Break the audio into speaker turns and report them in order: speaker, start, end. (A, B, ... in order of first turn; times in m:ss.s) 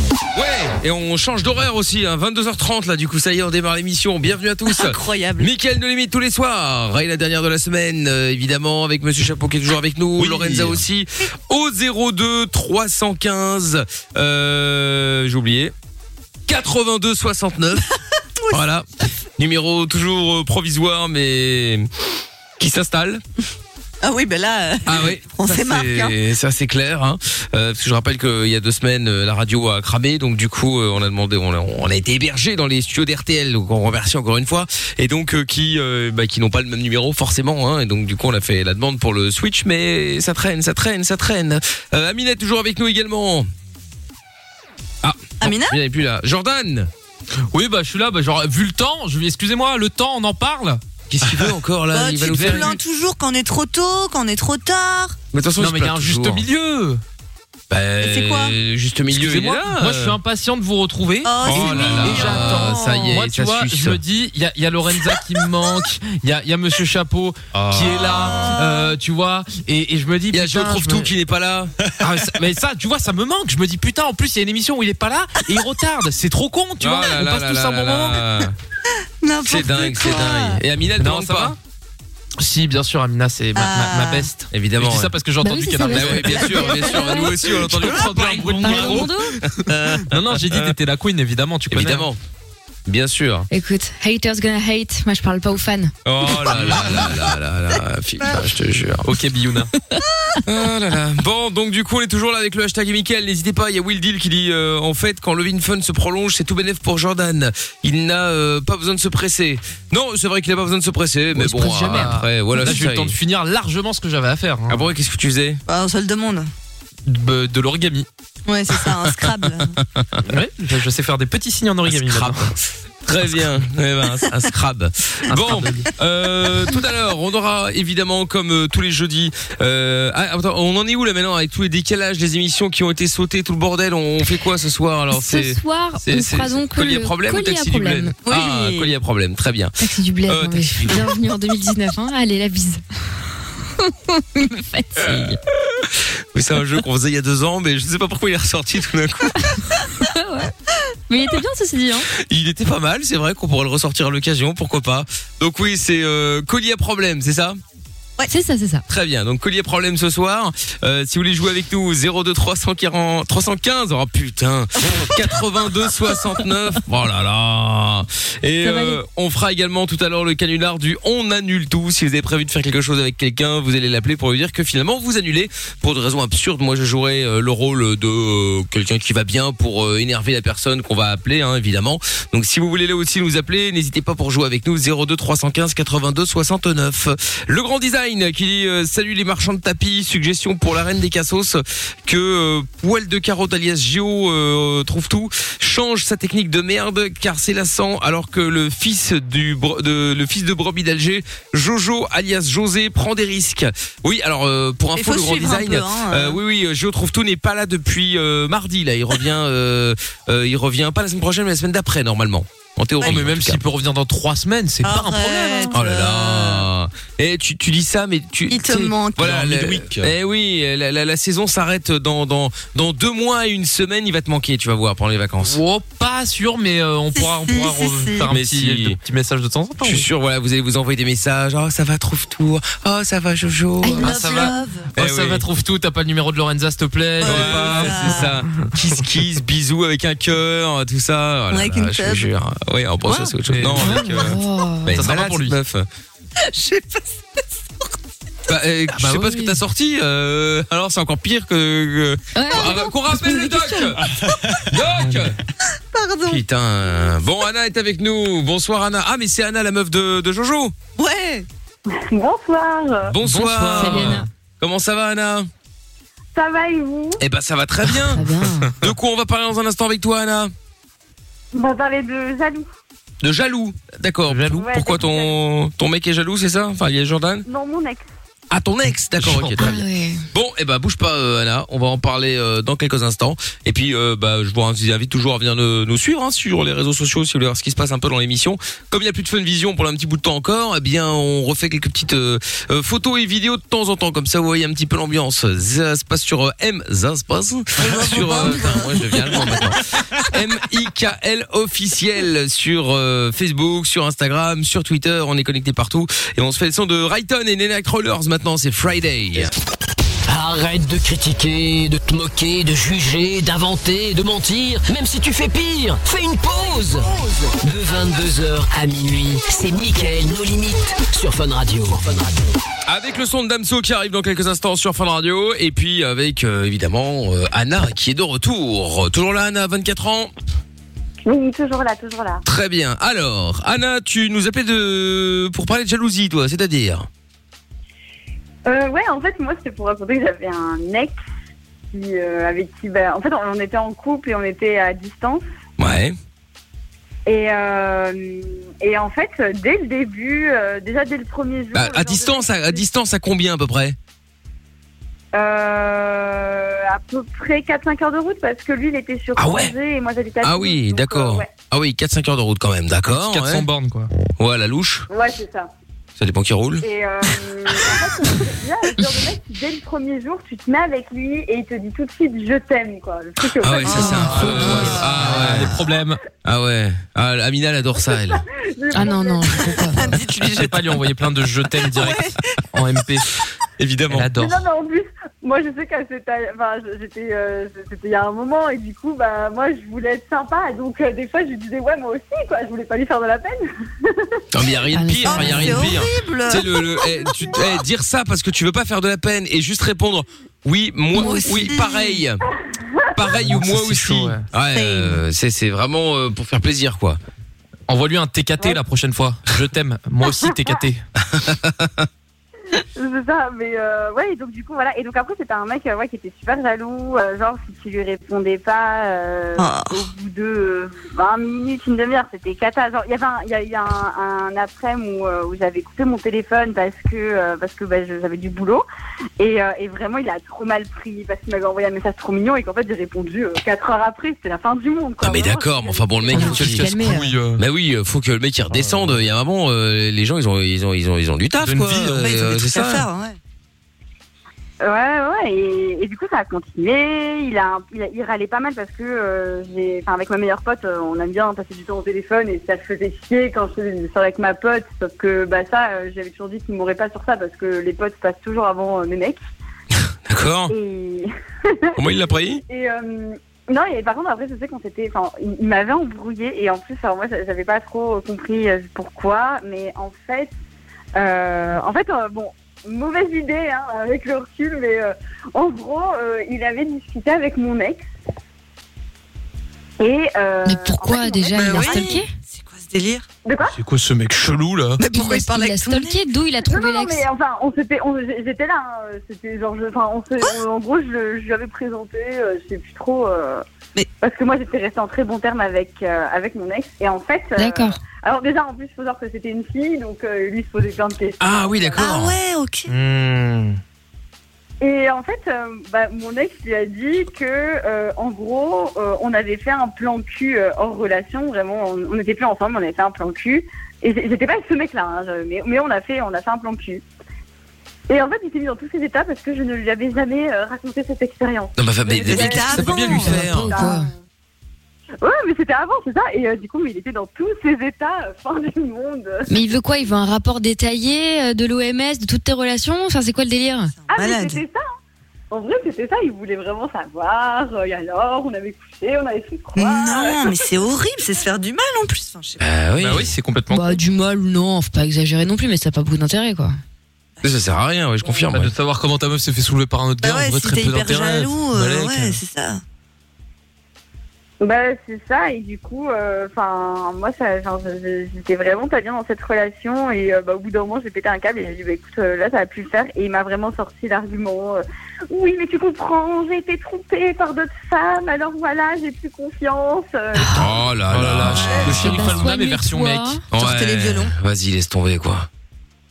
0:00.3-0:15.7 A
0:04.7-0:05.5 B
0:10.2-0:10.8 C
0:16.5-0:17.9 A
0:18.5-0:21.9 A
0:22.6-0:23.2 A
0:24.0-0:26.1 B
0:24.8-0:43.5 A
0:45.0-0:46.9 A
0:45.4-0:45.8 B
0:47.5-0:50.8 C
0:51.1-0:52.7 A
0:51.9-0:55.2 B
0:52.3-0:52.7 C
0:55.3-0:56.4 A
0:55.6-0:57.0 C
0:57.7-1:00.2 A
0:58.0-0:58.6 B
0:59.1-1:11.1 C
1:01.2-1:02.8 B
1:01.4-1:04.0 A
1:07.5-1:08.5 A
1:08.2-1:08.9 B
1:10.3-1:11.7 A
1:12.0-1:18.2 C
1:16.8-1:18.5 A
1:19.2-1:20.6 B
1:19.4-1:21.6 A
1:21.0-1:21.6 C
1:22.4-1:29.3 C
1:23.6-1:24.3 B
1:24.5-1:25.2 A
1:25.4-1:27.3 D
1:25.9-1:30.7 A
1:28.6-1:29.4 D
1:30.0-1:32.1 C
1:31.7-1:32.2 A
1:32.8-1:33.5 A
1:33.5-1:35.9 D
1:36.0-1:39.1 A
1:36.5-1:37.0 C
1:39.0-1:39.7 C
1:40.4-1:53.1 A
1:51.3-1:54.8 C
1:54.7-1:55.6 A
1:55.7-1:56.5 B
1:57.0-1:58.1 C
1:58.5-1:59.8 B
1:59.2-2:00.2 A
2:00.3-2:02.5 C
2:01.9-2:21.1 A
2:05.3-2:05.9 C
2:15.1-2:18.1 D
2:18.2-2:18.9 B
2:19.8-2:22.8 D
2:23.8-2:25.4 D
2:25.0-2:25.3 A
2:25.9-2:29.5 A
2:29.4-2:30.5 D
2:31.1-2:32.1 D
2:32.1-2:37.6 A
2:38.3-2:38.8 D
2:38.9-3:33.6 A
2:48.6-2:49.0 D
3:25.0-3:26.4 B
3:33.0-3:35.8 C
3:34.8-3:36.7 B
3:35.7-3:45.6 A
3:38.5-3:39.6 B
3:39.4-3:40.1 C
3:45.4-3:50.1 C
3:47.1-3:48.3 B
3:48.3-3:49.0 A
3:49.8-3:55.4 A
3:53.9-3:54.9 B
3:53.9-3:58.3 C
3:57.2-3:58.4 B
3:57.2-4:05.9 A
4:01.5-4:02.3 B
4:03.0-4:03.3 B
4:03.5-4:04.4 C
4:03.7-4:05.0 D
4:04.9-4:05.6 C
4:06.4-4:07.2 B
4:08.5-4:14.0 A
4:09.0-4:09.5 C
4:12.4-4:13.9 D
4:14.7-4:15.4 A
4:15.9-4:16.4 B
4:16.2-4:20.7 A
4:21.0-4:21.4 B
4:21.9-4:23.1 E
4:23.0-4:25.5 A
4:23.2-4:24.3 C
4:23.8-4:24.3 D
4:26.3-4:27.2 E
4:27.2-4:30.5 A
4:28.1-4:28.7 D
4:31.5-4:32.7 E
4:33.2-4:37.4 A
4:34.3-4:34.6 C
4:34.6-4:35.3 E
4:37.4-4:38.0 E
4:38.5-5:09.5 A
4:39.2-4:39.8 C
4:39.6-4:40.2 D
4:57.8-4:59.6 B
5:10.2-5:22.5 F
5:22.8-5:30.3 A
5:31.2-5:32.4 E
5:32.4-5:37.1 A
5:38.6-5:41.2 E
5:41.9-5:45.4 E
5:45.8-5:46.2 A
5:47.2-5:52.8 E
5:51.7-5:54.0 A
5:55.3-6:01.5 E
5:59.4-5:59.7 A
6:00.4-6:03.7 A
6:03.1-6:04.1 C
6:04.4-6:05.1 A
6:05.1-6:05.7 E
6:06.2-6:06.8 A
6:06.8-6:14.3 E
6:13.6-6:15.7 A
6:13.9-6:14.6 B
6:13.9-6:14.9 D
6:14.0-6:16.2 C
6:15.4-6:15.8 B
6:16.4-6:18.4 A
6:18.3-6:19.8 E
6:18.9-6:20.2 D
6:19.8-6:21.0 B
6:20.6-6:23.3 C
6:21.8-6:22.4 B
6:23.8-6:24.3 A
6:24.1-6:24.6 C
6:24.4-6:34.4 E
6:34.5-6:42.4 A
6:34.9-6:35.9 D
6:35.2-6:36.7 B
6:41.1-6:42.2 B
6:42.8-6:43.1 E
6:43.1-6:47.2 A
6:43.4-6:44.4 C
6:44.7-6:45.2 B
6:47.9-6:51.0 C
6:51.2-6:52.1 A
6:52.8-7:08.8 E
6:59.6-7:00.0 B
7:09.4-7:16.7 E
7:15.2-7:16.9 A
7:16.3-7:17.3 D
7:16.3-7:17.6 C
7:17.6-7:23.1 A
7:18.7-7:19.1 C
7:21.6-7:22.4 C
7:22.1-7:23.4 B
7:24.8-7:39.4 E
7:40.2-7:40.7 A
7:40.7-7:42.0 E
7:42.0-7:42.6 A
7:42.7-7:50.5 E
7:51.2-7:58.0 E
8:00.0-8:02.2 E
8:00.6-8:02.3 D
8:01.5-8:03.2 B
8:03.4-8:03.7 E
8:03.7-8:05.0 C
8:05.0-8:06.2 B
8:05.1-8:07.2 D
8:06.6-8:13.6 E
8:14.2-8:22.1 E
8:17.6-8:18.0 D
8:21.4-8:22.4 A
8:22.0-8:22.9 B
8:22.9-8:23.8 C
8:24.8-8:37.0 E
8:38.1-8:44.1 E
8:41.8-8:43.8 A
8:42.2-8:43.5 B
8:43.0-8:44.1 D
8:45.2-8:49.5 E
8:49.5-8:53.9 D
8:54.0-8:54.6 B
8:54.1-8:54.8 E
8:55.5-9:00.5 E
8:59.7-9:02.6 B
9:02.6-9:03.3 A
9:03.0-9:04.0 C
9:03.7-9:06.8 D
9:07.4-9:08.7 A
9:08.5-9:12.4 C
9:10.2-9:12.8 B
9:14.6-9:30.8 E
9:30.5-9:32.3 A
9:31.1-9:33.4 C
9:31.6-9:31.9 E
9:31.9-9:33.4 D
9:33.5-9:35.5 A
9:33.5-9:34.3 B